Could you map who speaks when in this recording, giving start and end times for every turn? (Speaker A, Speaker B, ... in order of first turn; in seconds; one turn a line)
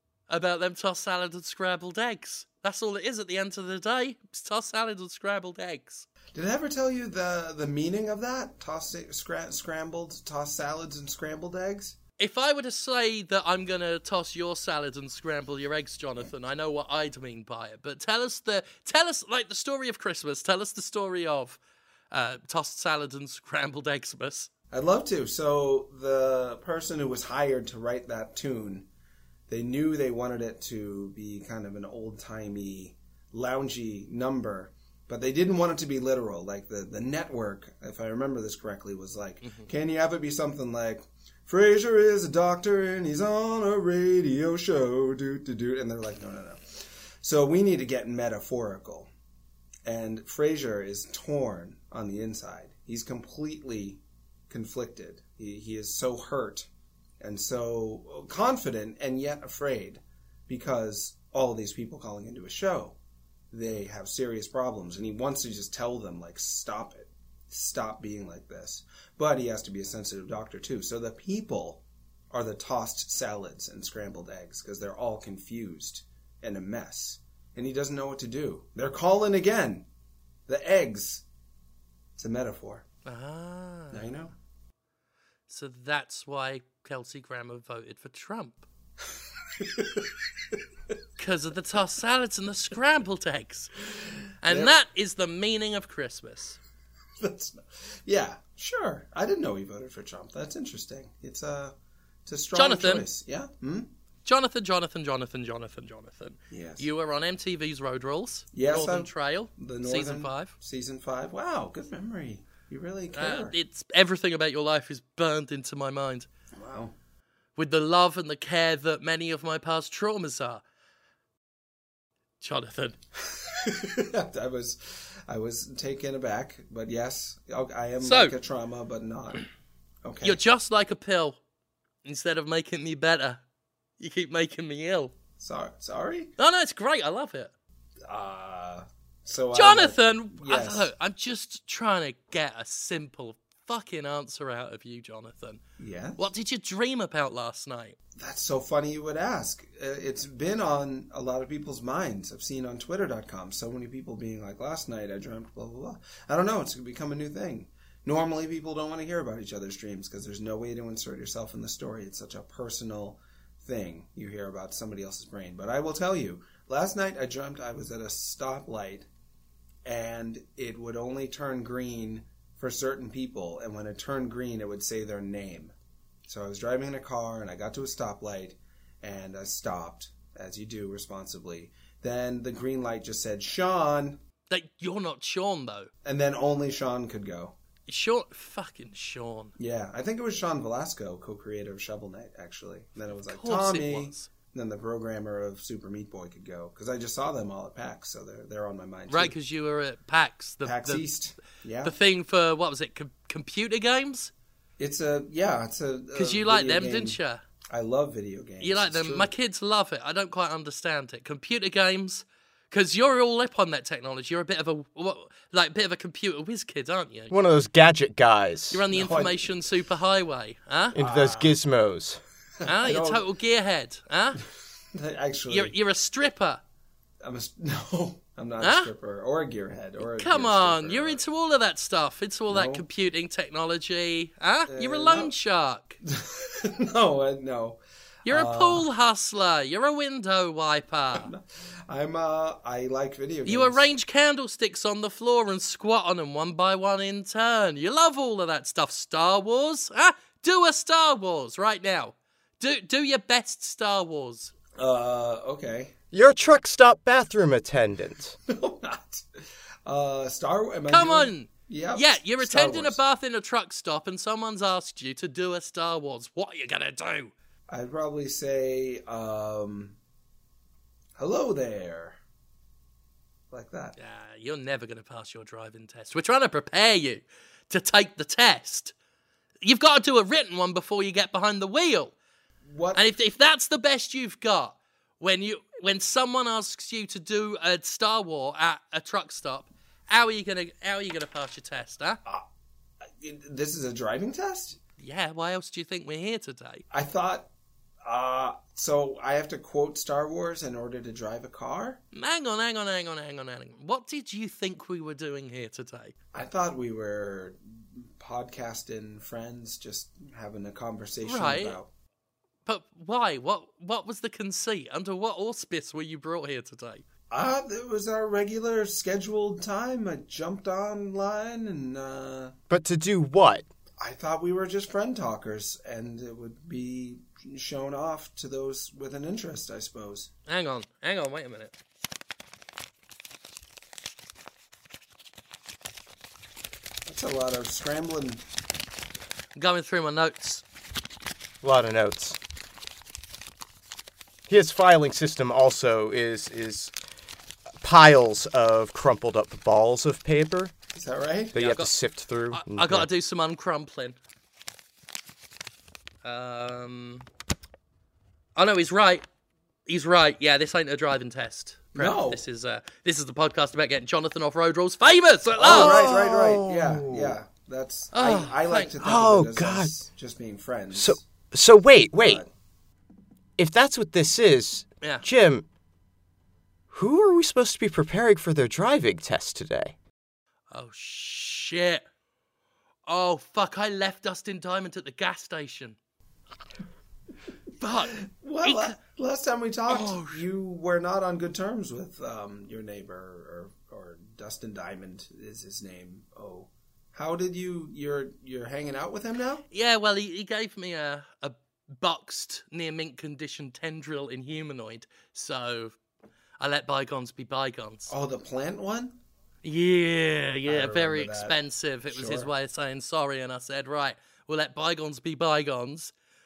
Speaker A: 0.3-6.1
Speaker B: 6.3-12.0
Speaker A: 12.2-21.6
Speaker A: 22.1-24.5
Speaker B: 24.7-28.9
Speaker B: 29.5-49.1
Speaker A: 39.4-39.7
Speaker B: 49.9-56.7
Speaker B: 57.2-63.0
Speaker B: 63.5-79.9
Speaker B: 80.5-81.2
Speaker B: 82.2-82.8
Speaker A: 83.1-84.1
Speaker B: 83.9-84.3
Speaker A: 85.5-88.6
Speaker B: 89.6-90.1
Speaker A: 91.2-93.7
Speaker A: 94.4-96.6
Speaker B: 94.5-94.7
Speaker B: 97.2-101.8
Speaker B: 102.3-103.9
Speaker A: 102.5-103.0
Speaker A: 104.2-110.5
Speaker B: 106.5-106.8
Speaker B: 108.5-113.5
Speaker A: 113.1-116.3
Speaker B: 116.6-116.9
Speaker A: 117.6-120.6
Speaker A: 122.4-123.0
Speaker B: 123.5-129.5
Speaker A: 128.0-128.3
Speaker B: 130.0-130.4
Speaker A: 130.2-131.4
Speaker A: 132.1-133.4
Speaker A: 134.0-135.1
Speaker B: 135.4-136.3
Speaker A: 136.4-137.5
Speaker B: 138.1-140.9
Speaker A: 139.5-145.6
Speaker B: 145.8-146.2
Speaker A: 146.2-148.0
Speaker B: 148.2-169.1
Speaker B: 169.8-175.7
Speaker B: 176.3-184.2
Speaker A: 184.5-185.9
Speaker B: 186.0-187.6
Speaker A: 187.9-189.5
Speaker B: 189.6-199.3
Speaker A: 193.2-194.3
Speaker A: 199.1-201.1
Speaker B: 200.6-201.9
Speaker A: 201.8-204.3
Speaker B: 204.8-207.2
Speaker A: 206.2-207.4
Speaker B: 207.7-209.3
Speaker A: 208.6-217.4
Speaker C: 217.3-218.8
Speaker A: 218.7-221.0
Speaker B: 218.9-219.6
Speaker C: 220.9-222.2
Speaker B: 221.0-221.6
Speaker B: 222.6-223.2
Speaker A: 222.7-224.4
Speaker B: 224.9-225.7
Speaker A: 225.5-226.6
Speaker B: 227.2-231.2
Speaker A: 228.6-228.9
Speaker A: 230.2-236.0
Speaker B: 232.5-232.9
Speaker B: 234.7-235.3
Speaker B: 236.1-238.9
Speaker A: 238.3-241.3
Speaker B: 241.2-243.9
Speaker A: 243.5-254.5
Speaker B: 254.8-255.9
Speaker C: 256.1-258.4
Speaker B: 258.5-263.0
Speaker A: 260.9-267.3
Speaker B: 267.7-270.0
Speaker B: 271.2-272.2
Speaker B: 273.5-274.0
Speaker A: 274.0-278.9
Speaker A: 279.6-282.1
Speaker B: 282.7-283.0
Speaker A: 282.9-292.2
Speaker B: 293.2-294.8
Speaker A: 295.0-296.8
Speaker B: 296.9-297.5
Speaker B: 298.0-302.0
Speaker A: 302.1-306.1
Speaker B: 306.3-311.9
Speaker A: 311.2-311.8
Speaker A: 312.7-317.1
Speaker B: 317.3-322.6
Speaker C: 322.7-323.7
Speaker B: 324.0-330.3
Speaker A: 330.5-331.7
Speaker B: 337.1-338.4
Speaker A: 339.6-340.6
Speaker C: 341.6-342.4
Speaker C: 344.5-346.9
Speaker C: 347.8-350.7
Speaker B: 350.9-351.6
Speaker C: 351.5-353.1
Speaker A: 351.6-351.9
Speaker A: 352.5-354.2
Speaker A: 356.2-357.2
Speaker A: 358.6-359.2
Speaker A: 359.9-366.0
Speaker B: 361.9-362.4
Speaker B: 365.6-371.2
Speaker C: 365.6-367.4
Speaker A: 368.1-368.9
Speaker C: 369.0-369.9
Speaker C: 370.9-372.4
Speaker B: 372.2-372.5
Speaker C: 373.6-375.7
Speaker C: 376.9-380.0
Speaker A: 380.7-382.1
Speaker A: 383.1-386.0
Speaker A: 387.8-389.0
Speaker B: 388.2-399.6
Speaker A: 389.9-390.4
Speaker A: 399.7-406.0
Speaker A: 406.6-408.1
Speaker B: 408.1-409.1
Speaker A: 409.6-416.1
Speaker B: 410.7-411.6
Speaker B: 412.1-412.5